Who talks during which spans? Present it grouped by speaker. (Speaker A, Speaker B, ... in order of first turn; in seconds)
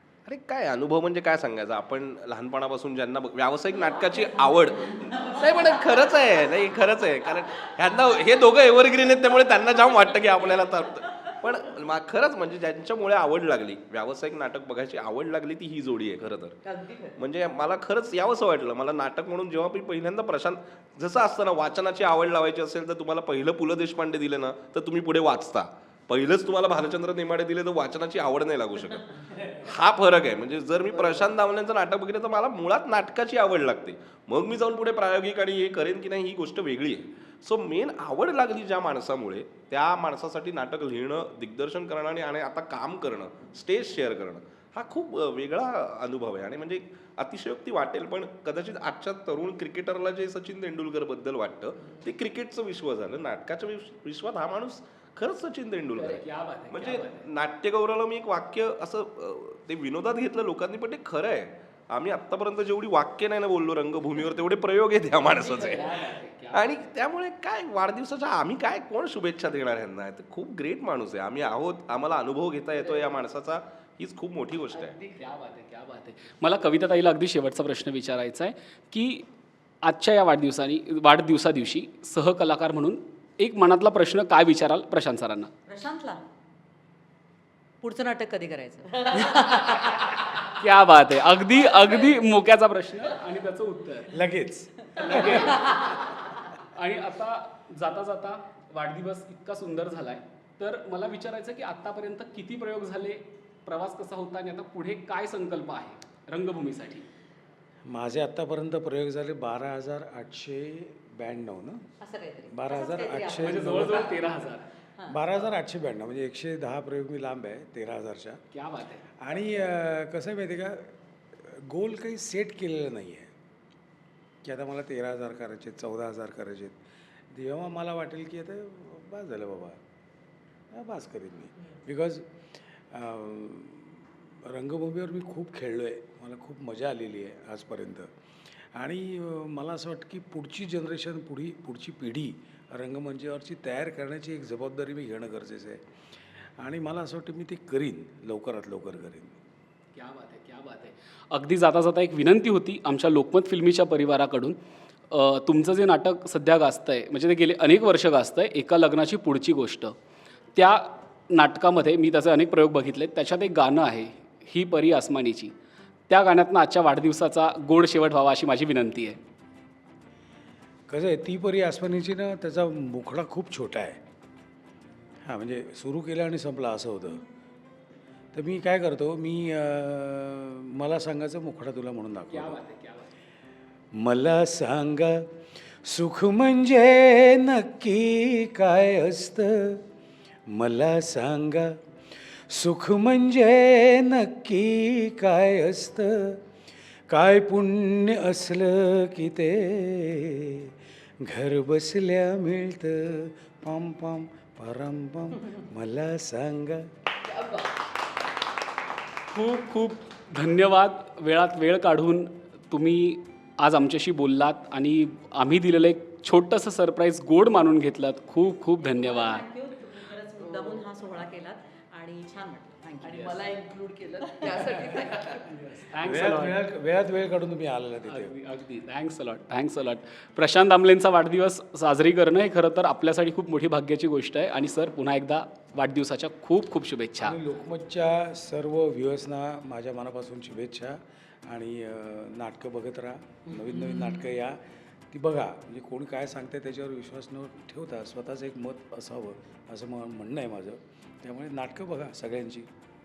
Speaker A: 0.3-16.6, 17.2-65.9, 66.5-75.0
Speaker B: 3.9-6.3, 10.0-10.8, 85.7-86.2, 87.8-90.2, 112.0-113.5, 218.8-223.5, 224.2-225.2
Speaker C: 16.6-17.2, 30.8-31.3, 65.5-66.1, 72.7-73.2, 74.7-75.2, 207.2-207.8, 220.4-220.9, 223.0-225.5
Speaker D: 56.0-57.3, 65.3-66.9, 75.2-79.3, 79.8-85.5, 89.2-89.9, 90.4-94.1, 95.0-96.2, 96.7-107.1, 113.4-114.7, 118.5-119.0, 149.9-154.6, 155.1-159.9, 160.6-165.5, 166.1-169.2, 182.3-183.1, 209.3-219.4, 225.4-226.6, 228.1-237.4
Speaker E: 94.1-95.5, 107.9-111.9, 112.5-114.1, 115.1-118.4, 119.2-123.3, 124.4-126.8, 127.3-129.8, 130.7-132.3, 132.9-138.1, 138.7-145.8, 146.4-149.4, 170.9-174.0, 175.2-177.2, 178.3-182.6, 183.9-185.2, 185.8-189.8, 190.5-191.8, 192.3-196.4, 197.1-206.9, 226.0-228.4, 237.2-244.6, 245.1-252.7